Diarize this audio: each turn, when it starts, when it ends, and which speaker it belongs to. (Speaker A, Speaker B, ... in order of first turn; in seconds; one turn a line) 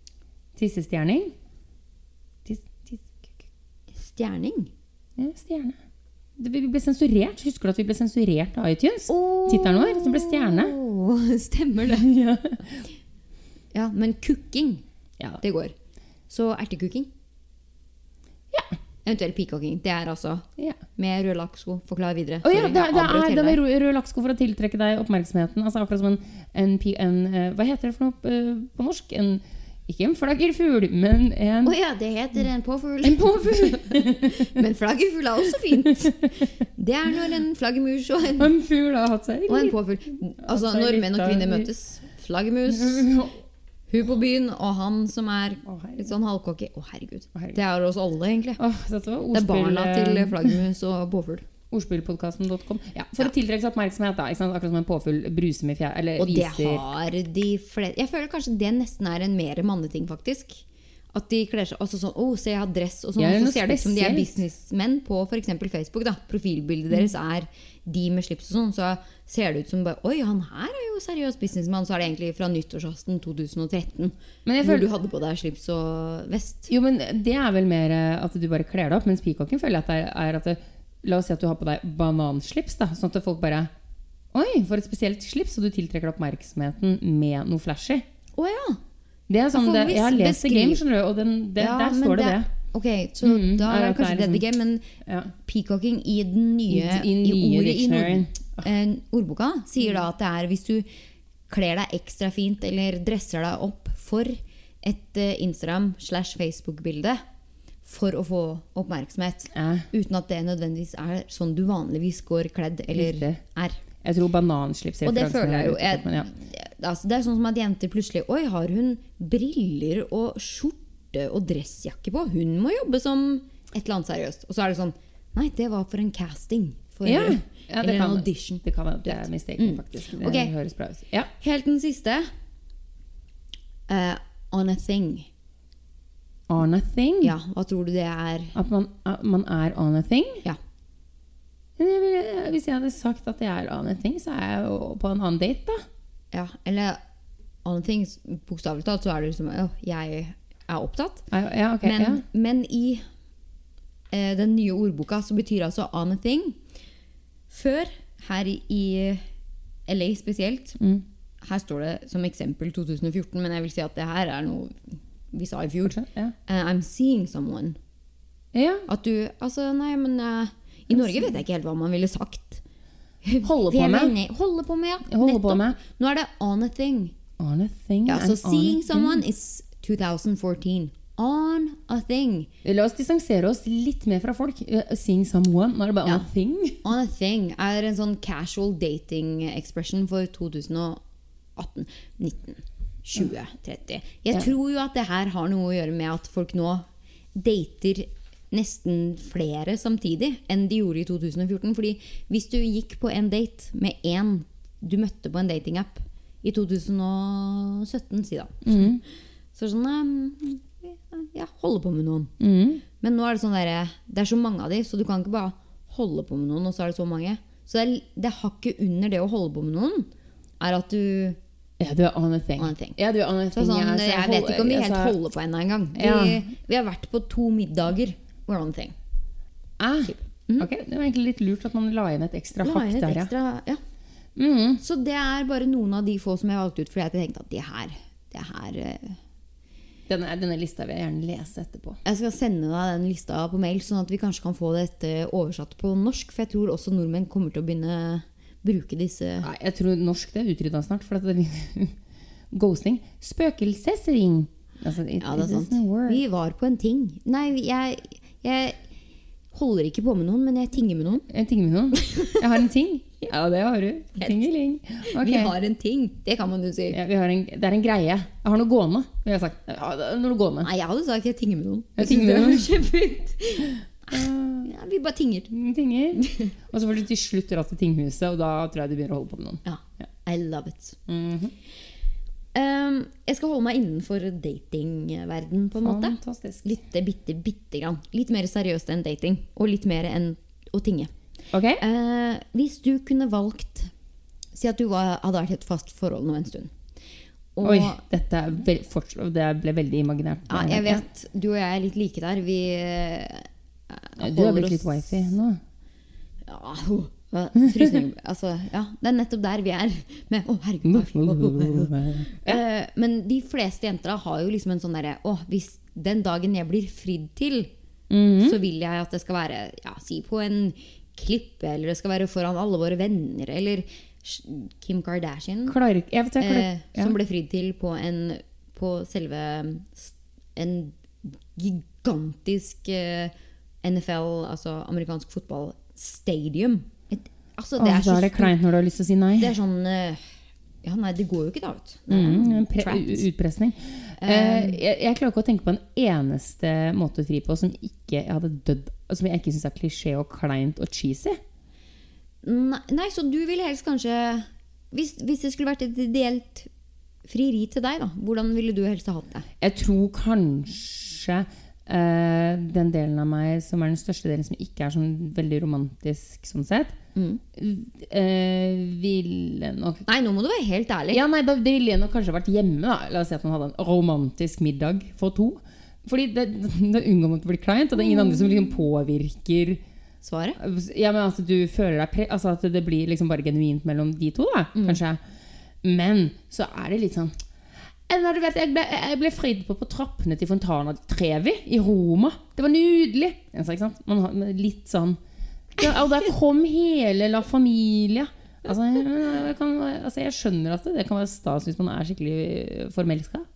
Speaker A: 0.6-1.3
Speaker A: 2.4-3.4
Speaker B: 3.9-4.7
Speaker A: 5.2-5.8
Speaker A: 6.4-10.7
Speaker B: 9.1-12.1
Speaker A: 11.9-12.9
Speaker B: 13.7-14.8
Speaker B: 15.4-15.7
Speaker B: 16.3-17.1
Speaker B: 19.0-23.6
Speaker A: 22.4-31.7
Speaker B: 31.6-38.5
Speaker A: 33.0-34.5
Speaker A: 35.7-36.5
Speaker A: 38.4-39.8
Speaker B: 39.5-43.1
Speaker A: 40.4-41.7
Speaker A: 42.7-43.4
Speaker B: 43.9-48.6
Speaker A: 45.6-46.1
Speaker A: 48.6-50.6
Speaker B: 49.3-51.5
Speaker A: 51.7-56.8
Speaker B: 56.2-76.7
Speaker A: 63.2-64.3
Speaker A: 74.5-74.9
Speaker A: 76.7-83.7
Speaker A: 84.3-88.0
Speaker B: 88.4-88.8
Speaker A: 89.3-92.5
Speaker B: 89.5-90.8
Speaker B: 91.6-94.9
Speaker A: 93.2-94.4
Speaker A: 95.0-95.3
Speaker B: 95.4-100.8
Speaker A: 96.7-98.7
Speaker B: 101.5-107.2
Speaker B: 107.8-113.8
Speaker A: 109.5-109.9
Speaker A: 112.9-113.4
Speaker A: 114.0-116.3
Speaker B: 115.0-130.5
Speaker A: 127.0-131.3
Speaker B: 131.4-132.3
Speaker B: 133.9-135.3
Speaker A: 136.5-137.3
Speaker B: 137.2-138.5
Speaker A: 138.5-140.4
Speaker A: 141.8-145.8
Speaker B: 146.3-147.0
Speaker B: 147.6-151.3
Speaker A: 151.3-152.2
Speaker B: 151.8-153.0
Speaker B: 154.1-156.6
Speaker B: 157.5-159.2
Speaker B: 159.9-160.8
Speaker B: 161.4-167.8
Speaker A: 165.8-166.3
Speaker A: 168.5-168.8
Speaker B: 168.9-172.6
Speaker A: 170.9-171.4
Speaker B: 173.2-177.1
Speaker A: 173.4-174.1
Speaker A: 175.1-175.8
Speaker A: 177.4-179.2
Speaker B: 178.1-182.5
Speaker A: 182.6-186.8
Speaker B: 186.8-191.0
Speaker B: 191.6-208.9
Speaker A: 208.6-209.0
Speaker B: 209.5-212.3
Speaker A: 212.4-212.8
Speaker B: 213.0-220.1
Speaker B: 220.6-221.4
Speaker A: 221.8-225.2
Speaker B: 222.6-223.0
Speaker B: 223.5-228.9
Speaker A: 225.9-226.4
Speaker A: 229.8-233.3
Speaker B: 230.1-230.7
Speaker B: 232.6-233.8
Speaker A: 234.3-234.8
Speaker B: 234.8-239.2
Speaker A: 240.1-242.0
Speaker B: 242.0-249.5
Speaker A: 249.4-251.9
Speaker A: 252.5-256.2
Speaker B: 255.2-258.8
Speaker B: 259.5-261.2
Speaker A: 261.3-265.5
Speaker B: 261.9-262.4
Speaker B: 265.1-267.0
Speaker A: 266.9-270.7
Speaker B: 270.6-275.5
Speaker A: 272.0-272.7
Speaker A: 274.1-274.7
Speaker A: 275.5-280.0
Speaker B: 276.1-276.5
Speaker B: 279.6-281.0
Speaker A: 281.1-281.5
Speaker B: 282.5-291.1
Speaker A: 285.8-286.6
Speaker A: 291.5-291.8
Speaker B: 291.8-293.9
Speaker B: 294.5-296.7
Speaker B: 297.6-298.0
Speaker A: 297.6-301.0
Speaker B: 300.5-305.3
Speaker A: 304.2-305.6
Speaker B: 306.5-317.7
Speaker A: 307.7-307.9
Speaker A: 310.8-312.6
Speaker A: 318.1-318.6
Speaker B: 318.4-325.8
Speaker A: 325.7-327.1
Speaker B: 326.4-338.5
Speaker A: 337.8-339.6
Speaker B: 339.4-340.2
Speaker B: 340.8-343.2
Speaker A: 342.1-351.4
Speaker B: 344.2-344.8
Speaker B: 352.4-356.7
Speaker B: 357.2-359.5
Speaker A: 359.6-367.0
Speaker B: 367.1-367.4
Speaker A: 367.6-370.0
Speaker B: 370.1-371.2
Speaker A: 371.1-379.8
Speaker B: 380.2-380.6
Speaker A: 380.6-385.2
Speaker B: 384.7-385.0
Speaker A: 385.8-387.3
Speaker A: 388.1-395.2
Speaker A: 395.7-403.5